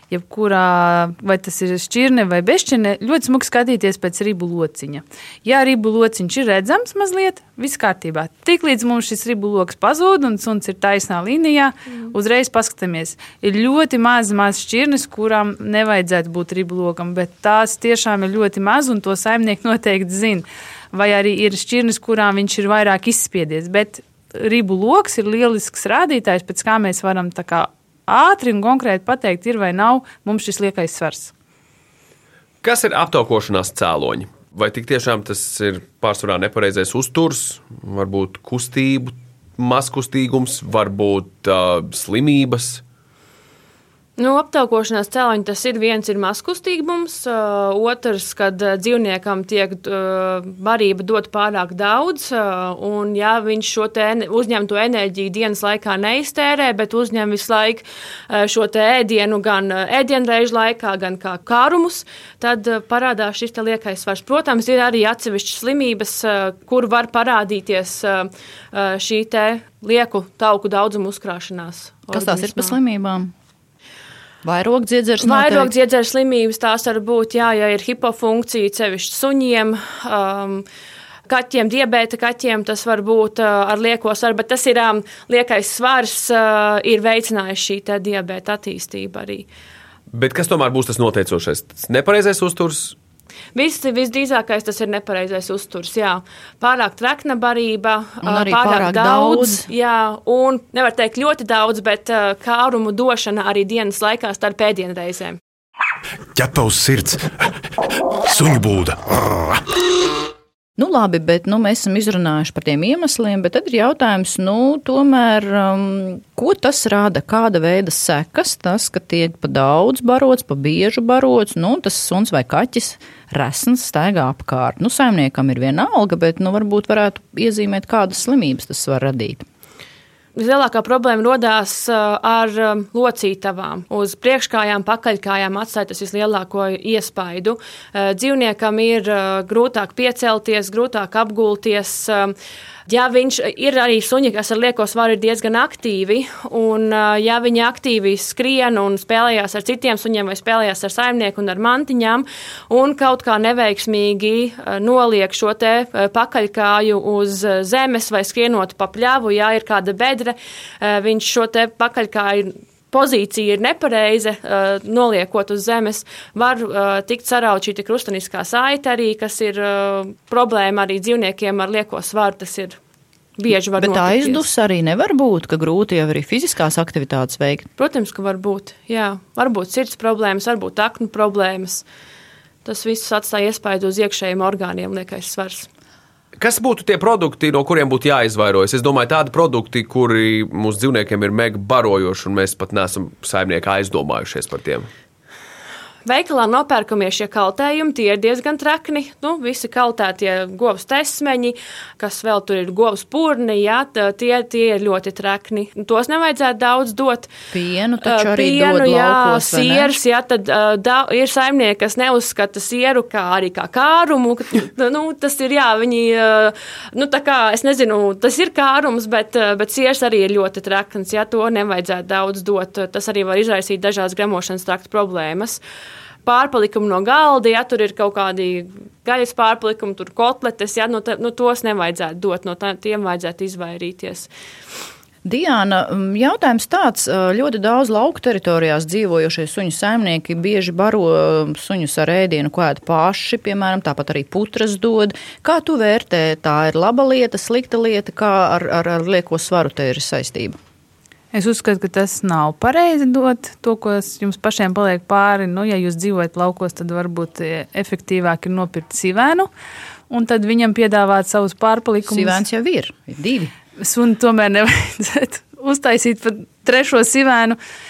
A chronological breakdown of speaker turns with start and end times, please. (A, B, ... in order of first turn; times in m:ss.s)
0:00.1-0:31.3 A
0:32.6-0:42.8 B
0:44.2-1:12.8 C
1:12.1-1:13.3 D
1:14.4-1:15.7 D
1:15.2-1:20.6 C
1:21.3-1:29.5 C
1:30.1-1:33.0 B
1:33.5-1:45.4 C
1:38.2-1:39.7 D
1:46.3-1:47.4 E
1:48.2-1:49.6 E
1:50.8-2:09.5 D
2:10.4-2:22.4 C
2:22.9-2:52.8 C
2:53.4-2:54.5 C
2:53.8-2:57.7 D
2:57.8-3:01.8 C
3:02.6-3:05.7 C
3:06.4-3:14.9 B
3:16.1-3:27.3 C
3:27.5-3:29.9 D
3:28.0-3:45.6 C
3:46.2-3:54.3 C
3:55.2-4:10.6 D
4:11.3-4:19.5 A
4:20.1-4:22.4 A
4:22.0-4:23.5 D
4:23.8-4:27.6 A